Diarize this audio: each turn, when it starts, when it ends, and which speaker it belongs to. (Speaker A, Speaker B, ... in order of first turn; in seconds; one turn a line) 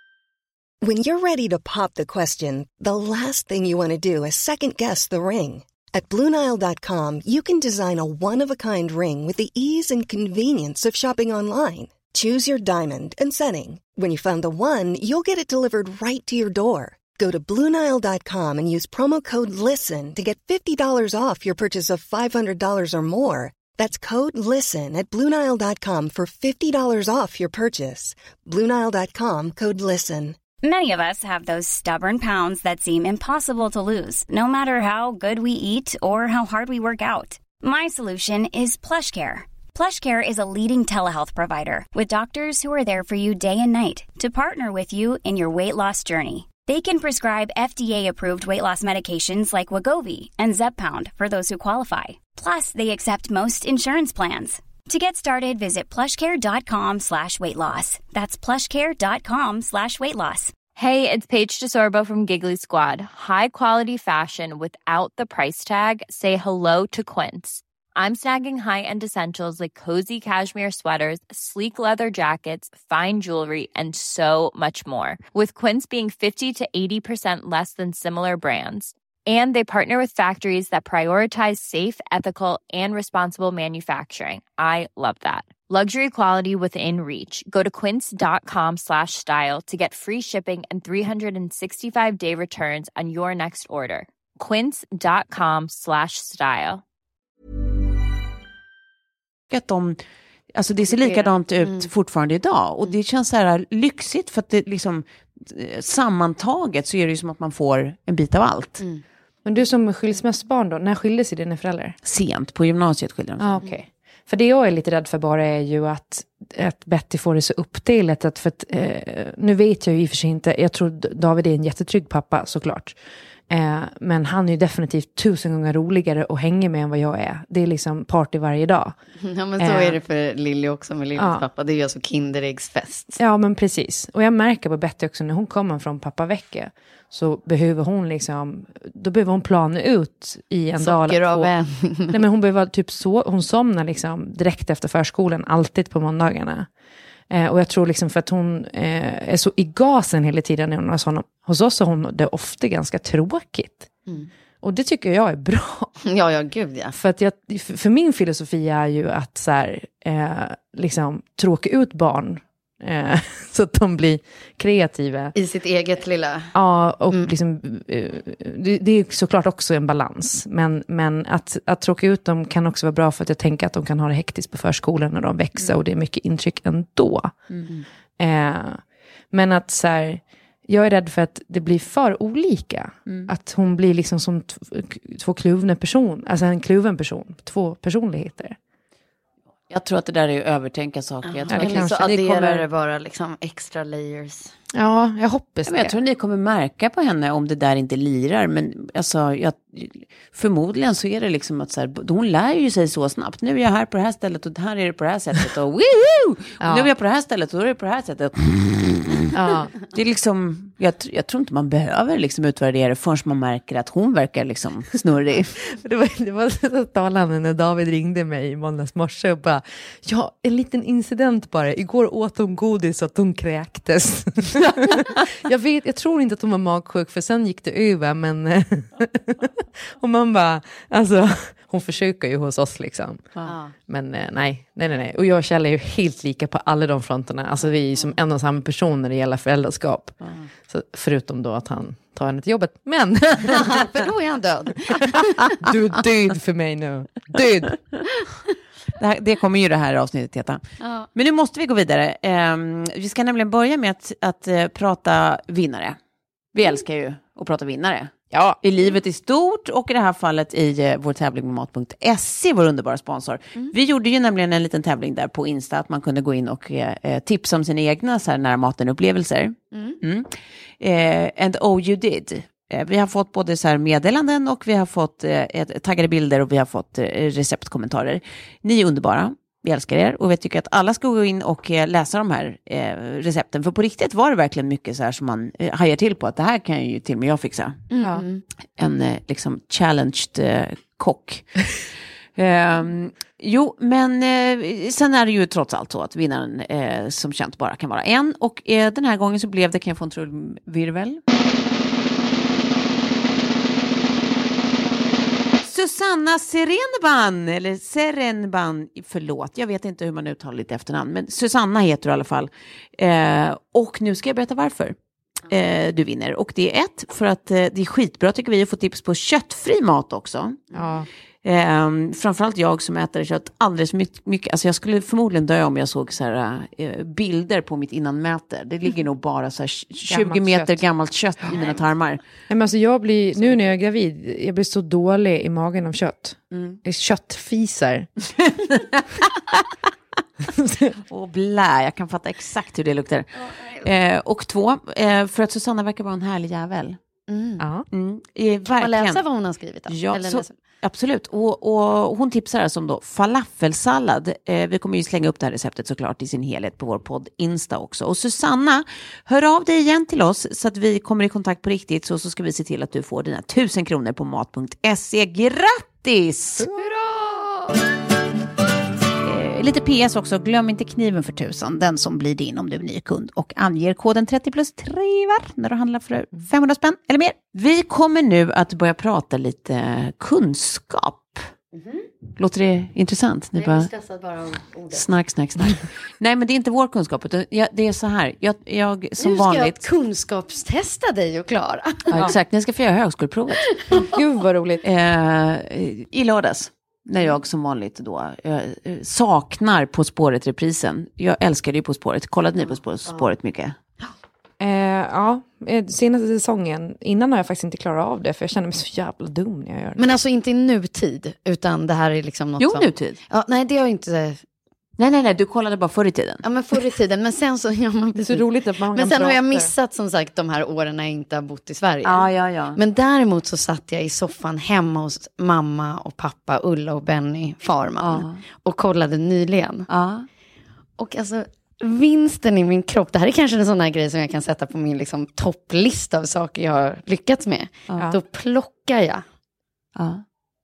Speaker A: 0.8-30.4
Speaker B: 30.6-60.6
Speaker C: 60.7-96.8
Speaker D: 99.5-100.0
Speaker D: 100.5-108.8
Speaker E: 100.9-101.9
Speaker F: 109.4-112.0
Speaker D: 112.0-113.6
Speaker F: 113.4-122.9
Speaker F: 123.5-128.9
Speaker E: 129.2-133.2
Speaker F: 129.6-130.0
Speaker F: 131.2-131.4
Speaker F: 133.2-141.5
Speaker E: 140.8-142.2
Speaker F: 142.1-146.7
Speaker F: 147.3-154.0
Speaker F: 154.6-155.9
Speaker E: 156.0-156.9
Speaker F: 156.9-165.3
Speaker E: 165.3-166.5
Speaker F: 166.5-177.6
Speaker F: 178.2-188.6
Speaker D: 189.7-192.6
Speaker E: 191.2-194.5
Speaker F: 191.5-192.0
Speaker F: 194.7-195.9
Speaker D: 195.7-209.3
Speaker F: 206.6-206.9
Speaker F: 209.3-209.7
Speaker D: 209.9-215.5
Speaker F: 215.7-233.3
Speaker E: 233.4-233.7
Speaker F: 233.9-243.8
Speaker E: 243.4-245.5
Speaker F: 245.1-247.7
Speaker D: 249.0-250.6
Speaker E: 250.8-251.1
Speaker D: 251.1-256.0
Speaker D: 256.5-270.3
Speaker F: 258.3-258.6
Speaker E: 269.7-270.0
Speaker D: 270.8-287.8
Speaker E: 287.9-288.4
Speaker D: 288.8-291.7
Speaker D: 292.4-301.2
Speaker D: 305.6-314.9
Speaker D: 315.5-320.8
Speaker F: 320.7-321.1
Speaker D: 321.4-332.2
Speaker F: 330.1-330.8
Speaker F: 332.5-338.1
Speaker D: 333.4-333.6
Speaker D: 336.5-336.8
Speaker D: 338.4-339.2
Speaker F: 340.5-340.9
Speaker D: 341.1-347.0
Speaker E: 343.5-343.8
Speaker E: 347.3-347.6
Speaker F: 347.6-347.9
Speaker D: 347.9-349.2
Speaker E: 348.7-350.5
Speaker D: 349.9-366.7
Speaker E: 366.7-367.8
Speaker D: 369.2-381.5
Speaker E: 381.7-382.1
Speaker D: 382.4-383.9
Speaker E: 383.5-385.1
Speaker D: 384.9-389.8
Speaker E: 389.2-392.1
Speaker D: 392.1-393.6
Speaker E: 393.7-394.0
Speaker F: 394.0-394.8
Speaker D: 394.8-403.8
Speaker F: 404.6-410.1
Speaker E: 410.0-414.4
Speaker D: 412.6-413.2
Speaker D: 415.0-416.4
Speaker E: 416.4-429.9
Speaker F: 418.1-419.7
Speaker D: 422.0-422.8
Speaker D: 428.0-428.4
Speaker D: 429.9-430.2
Speaker E: 431.0-439.2
Speaker D: 439.9-440.2